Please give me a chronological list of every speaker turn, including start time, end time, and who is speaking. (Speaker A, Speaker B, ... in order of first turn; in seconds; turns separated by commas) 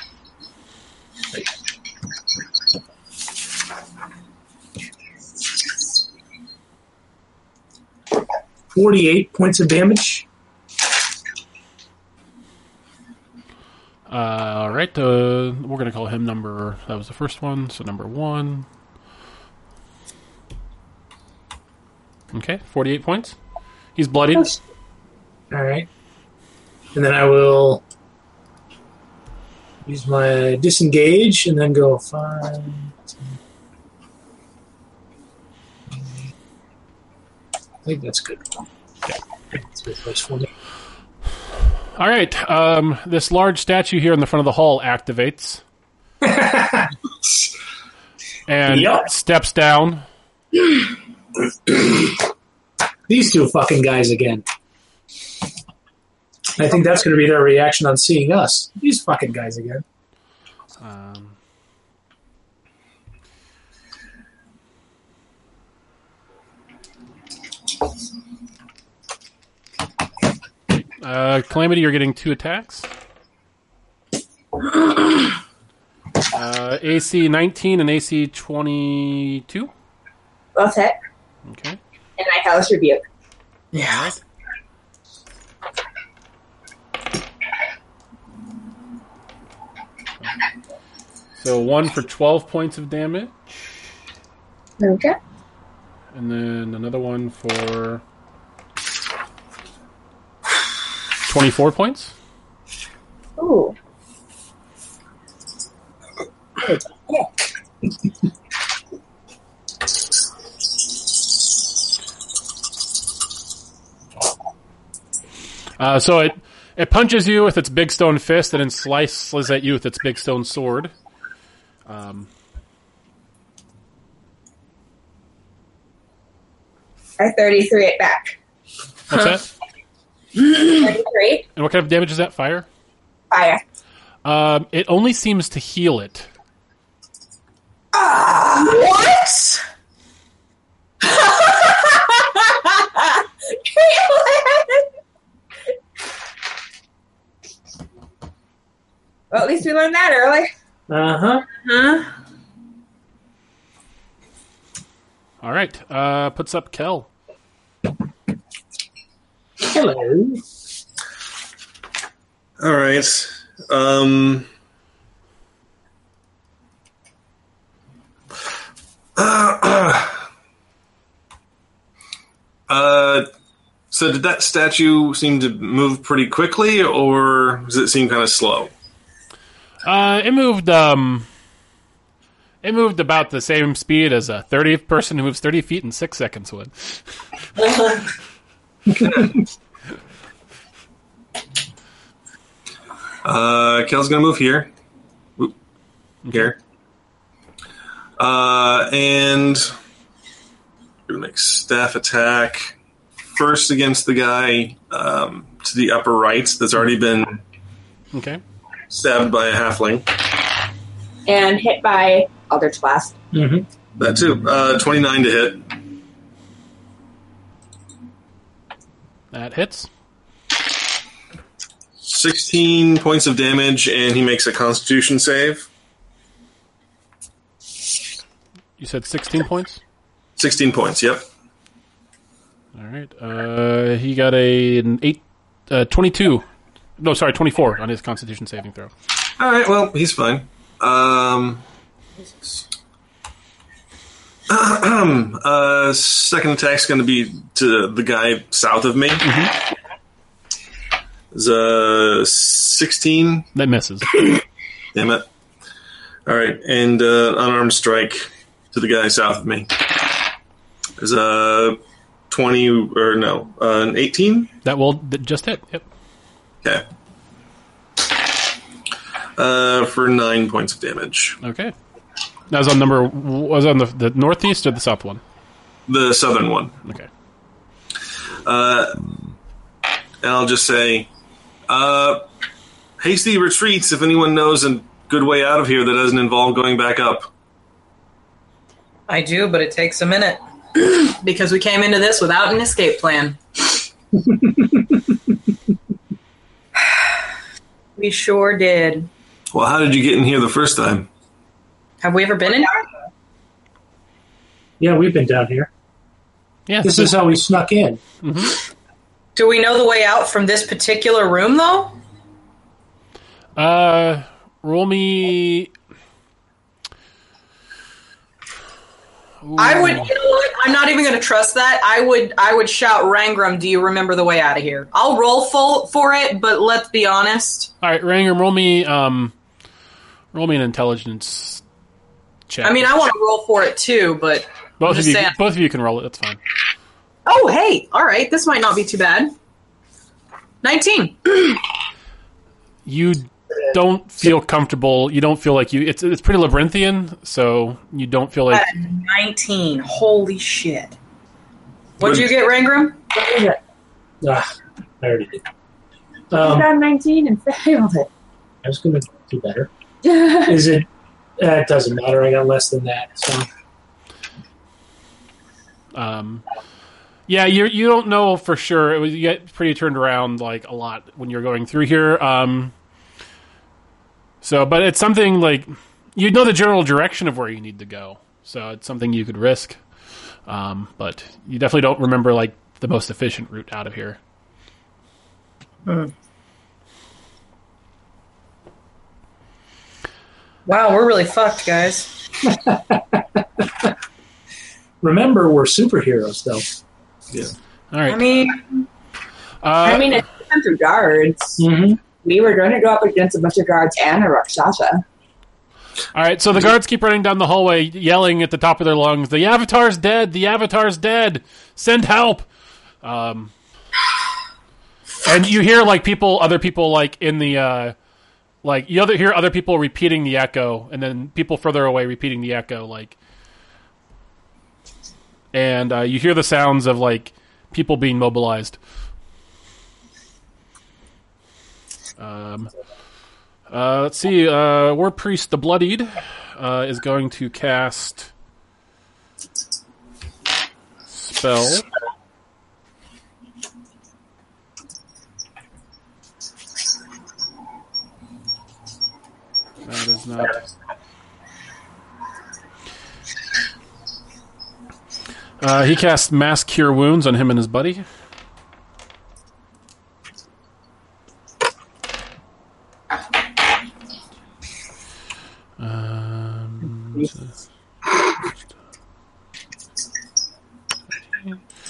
Speaker A: 8.7-10.2, Speaker B: 14.1-18.6, Speaker B: 22.3-23.4, Speaker B: 23.9-24.6, Speaker A: 25.5-25.9, Speaker A: 26.9-27.8, Speaker A: 29.8-33.1, Speaker A: 37.8-38.5, Speaker A: 39.5-40.5, Speaker B: 42.0-45.6, Speaker A: 46.2-46.9, Speaker B: 48.5-50.0, Speaker A: 48.7-49.1, Speaker A: 53.1-54.4, Speaker A: 56.5-59.8, Speaker B: 60.8-61.4, Speaker B: 71.0-72.9, Speaker B: 76.3-79.7, Speaker C: 80.5-80.9, Speaker B: 81.5-81.8, Speaker C: 82.2-83.0, Speaker D: 83.7-84.1, Speaker B: 83.8-84.2, Speaker B: 91.4-93.4, Speaker C: 94.8-95.2, Speaker B: 96.1-98.0, Speaker B: 101.2-102.1, Speaker C: 103.4-103.8, Speaker C: 106.6-107.3, Speaker B: 115.8-120.9, Speaker B: 121.9-122.3, Speaker C: 127.2-128.3, Speaker B: 129.1-129.5, Speaker C: 130.5-131.4, Speaker B: 131.6-132.7, Speaker C: 133.3-133.6, Speaker B: 134.2-136.3, Speaker C: 137.9-138.8, Speaker D: 138.6-139.6, Speaker C: 141.0-144.8, Speaker C: 149.3-150.5, Speaker A: 150.9-151.4, Speaker D: 151.6-152.1, Speaker B: 155.4-157.1, Speaker A: 159.6-160.4, Speaker E: 162.6-164.5, Speaker E: 169.2-170.2, Speaker E: 172.7-173.3, Speaker E: 173.9-178.7, Speaker B: 179.8-181.3, Speaker B: 182.6-187.0, Speaker D: 187.6-188.0, Speaker E: 193.2-194.7, Speaker E: 196.3-196.6, Speaker E: 198.2-199.7, Speaker E: 201.1-202.7, Speaker E: 203.3-207.4, Speaker B: 208.1-208.4, Speaker E: 208.9-210.1, Speaker C: 211.2-213.1, Speaker A: 213.3-213.7, Speaker E: 214.0-215.7, Speaker B: 219.3-219.9, Speaker E: 222.0-225.7, Speaker B: 228.8-229.8, Speaker E: 230.4-231.2, Speaker B: 232.7-236.4, Speaker B: 237.0-238.9, Speaker E: 239.4-241.6, Speaker E: 244.5-249.4, Speaker B: 249.2-249.5, Speaker E: 251.3-253.5, Speaker B: 253.5-254.2, Speaker E: 254.9-255.2, Speaker E: 256.2-259.8, Speaker E: 261.0-261.8, Speaker E: 262.3-264.5, Speaker B: 264.6-265.8, Speaker E: 269.4-271.4, Speaker B: 271.4-271.7, Speaker B: 272.5-275.2, Speaker E: 275.9-276.8, Speaker E: 278.4-279.0, Speaker E: 280.2-281.1, Speaker E: 281.7-282.2, Speaker E: 283.0-287.3, Speaker D: 289.1-293.8, Speaker D: 298.0-299.1, Speaker E: 299.5-301.1, Speaker D: 302.0-302.8, Speaker A: 304.8-305.7, Speaker B: 306.7-307.1, Speaker A: 306.8-308.0, Speaker B: 308.2-308.6, Speaker D: 309.4-312.0, Speaker B: 313.6-315.7, Speaker B: 319.4-320.1, Speaker D: 319.6-327.7, Speaker B: 327.8-329.3, Speaker B: 330.3-331.6, Speaker B: 332.5-332.9, Speaker D: 332.6-335.3, Speaker B: 334.8-336.4, Speaker D: 337.2-339.3, Speaker D: 340.6-341.6, Speaker B: 342.9-348.7, Speaker D: 348.5-350.9, Speaker D: 352.0-353.0, Speaker E: 352.0-352.2, Speaker C: 353.1-353.6, Speaker A: 354.2-354.5, Speaker A: 355.0-355.4, Speaker A: 356.3-356.7, Speaker C: 356.4-358.1, Speaker A: 358.6-359.7, Speaker C: 360.0-360.5, Speaker A: 360.4-360.9, Speaker A: 361.4-363.5, Speaker B: 365.9-366.4, Speaker B: 367.3-372.7, Speaker B: 374.4-379.8, Speaker B: 380.5-384.2, Speaker D: 385.9-386.1, Speaker D: 390.6-392.1, Speaker A: 392.5-393.4, Speaker A: 395.0-396.6, Speaker B: 397.9-398.2, Speaker D: 398.1-398.9, Speaker B: 399.6-400.2, Speaker C: 399.8-401.6, Speaker A: 401.6-402.0, Speaker C: 402.2-405.0, Speaker B: 406.1-412.4, Speaker B: 413.0-413.5, Speaker B: 415.2-417.9, Speaker B: 418.6-423.1, Speaker B: 425.5-428.8, Speaker B: 432.2-432.7, Speaker B: 433.7-438.3, Speaker B: 441.1-441.9, Speaker B: 449.8-450.6, Speaker B: 455.6-458.0, Speaker B: 465.8-467.5